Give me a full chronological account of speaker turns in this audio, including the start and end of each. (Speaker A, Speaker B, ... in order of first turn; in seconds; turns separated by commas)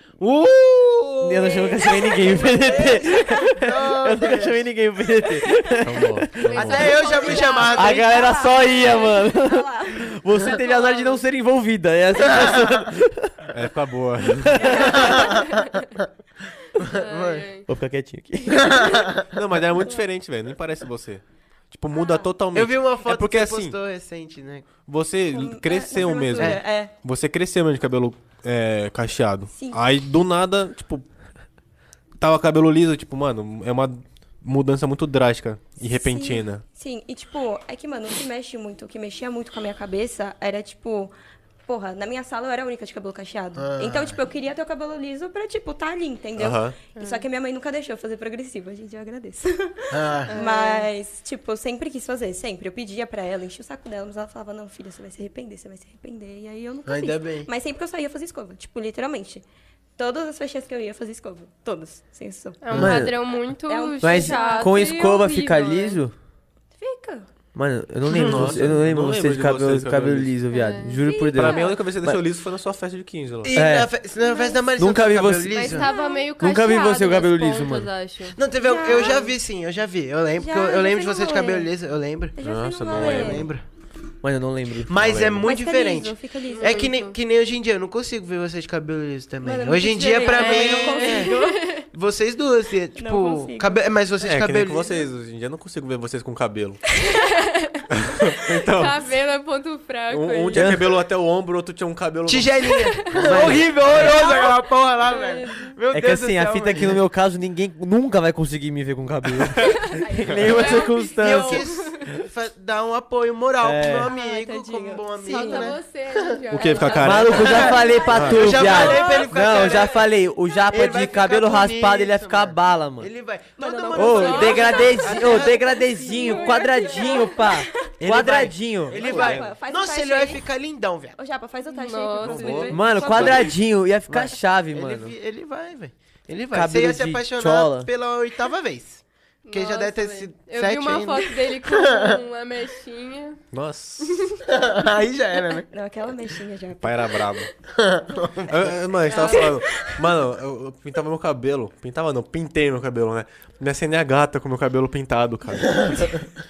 Speaker A: 0.2-1.6, Speaker B: 1.2-6.5, Speaker C: 1.4-3.5, Speaker A: 2.8-4.6, Speaker C: 5.5-5.8, Speaker D: 5.8-7.0, Speaker E: 6.5-7.8, Speaker C: 6.5-10.1, Speaker A: 6.6-8.1, Speaker B: 7.7-13.5, Speaker E: 10.5-11.2, Speaker A: 12.3-12.8, Speaker D: 13.5-14.8, Speaker B: 14.3-15.0, Speaker C: 14.6-15.4, Speaker A: 14.7-16.0, Speaker E: 15.0-15.7, Speaker A: 16.8-17.5, Speaker E: 16.8-17.7, Speaker B: 17.7-18.9, Speaker A: 18.5-19.3, Speaker C: 18.7-19.1, Speaker D: 19.3-23.8, Speaker C: 21.9-22.3, Speaker A: 22.5-24.8, Speaker D: 24.8-31.1, Speaker C: 25.3-26.9, Speaker A: 26.4-26.6, Speaker C: 29.5-29.8, Speaker D: 32.2-36.6, Speaker C: 35.8-41.1, Speaker C: 41.7-59.4, Speaker A: 43.6-44.2, Speaker D: 46.4-46.8, Speaker E: 47.0-47.2, Speaker A: 49.9-50.3, Speaker E: 50.3-50.9, Speaker A: 56.9-57.5, Speaker C: 60.0-62.6, Speaker E: 62.6-66.0, Speaker B: 62.7-63.1, Speaker C: 63.6-65.2, Speaker B: 64.0-66.1, Speaker C: 66.8-67.3, Speaker B: 67.5-72.2, Speaker A: 68.1-68.5, Speaker D: 68.1-70.3, Speaker E: 70.5-71.0, Speaker C: 70.5-71.8, Speaker D: 71.3-73.6, Speaker A: 73.4-75.9, Speaker B: 73.5-73.9, Speaker C: 74.2-74.7, Speaker B: 74.8-75.8, Speaker E: 75.5-78.4, Speaker C: 75.8-76.2, Speaker B: 76.4-77.9, Speaker A: 78.3-83.6, Speaker C: 78.6-79.3, Speaker E: 78.9-79.2, Speaker C: 80.4-81.7, Speaker C: 82.3-83.5, Speaker D: 82.4-83.5, Speaker B: 84.2-85.0, Speaker A: 84.9-91.3, Speaker D: 85.0-85.5, Speaker C: 85.4-86.9, Speaker E: 86.5-87.2, Speaker C: 89.4-91.7, Speaker E: 90.2-91.8, Speaker A: 91.8-95.0, Speaker C: 93.0-93.8, Speaker D: 94.2-96.8, Speaker E: 97.0-97.8, Speaker D: 97.9-99.0, Speaker E: 98.6-100.7, Speaker D: 100.1-102.5, Speaker B: 100.5-100.9, Speaker A: 102.2-107.0, Speaker D: 103.1-103.6, Speaker B: 103.2-104.2, Speaker C: 104.1-104.5, Speaker E: 105.0-105.7, Speaker B: 105.9-111.7, Speaker D: 109.4-109.7, Speaker C: 109.9-111.0, Speaker E: 110.5-111.9, Speaker A: 111.2-115.8, Speaker B: 113.6-114.1, Speaker C: 114.1-115.8, Speaker E: 115.2-117.8, Speaker D: 116.5-117.5, Speaker C: 116.6-120.0, Speaker B: 117.0-123.1, Speaker A: 117.4-120.1, Speaker D: 118.1-118.6, Speaker E: 118.6-119.2, Speaker A: 120.7-125.6, Speaker C: 123.6-128.0, Speaker B: 123.9-129.3, Speaker E: 124.1-125.2, Speaker E: 125.9-127.3, Speaker A: 128.0-131.2, Speaker C: 128.9-130.4, Speaker D: 129.0-129.4, Speaker C: 131.2-133.6, Speaker E: 131.7-132.7, Speaker D: 132.2-133.4, Speaker B: 132.7-135.1, Speaker A: 134.1-142.2, Speaker B: 136.5-137.9, Speaker E: 139.4-143.4, Speaker D: 143.5-144.4, Speaker E: 144.0-144.4, Speaker A: 144.5-145.7, Speaker C: 145.7-147.4, Speaker D: 146.8-147.5, Speaker A: 147.7-149.3, Speaker D: 148.5-156.2, Speaker E: 149.1-149.6, Speaker C: 149.2-150.0, Speaker A: 155.7-156.0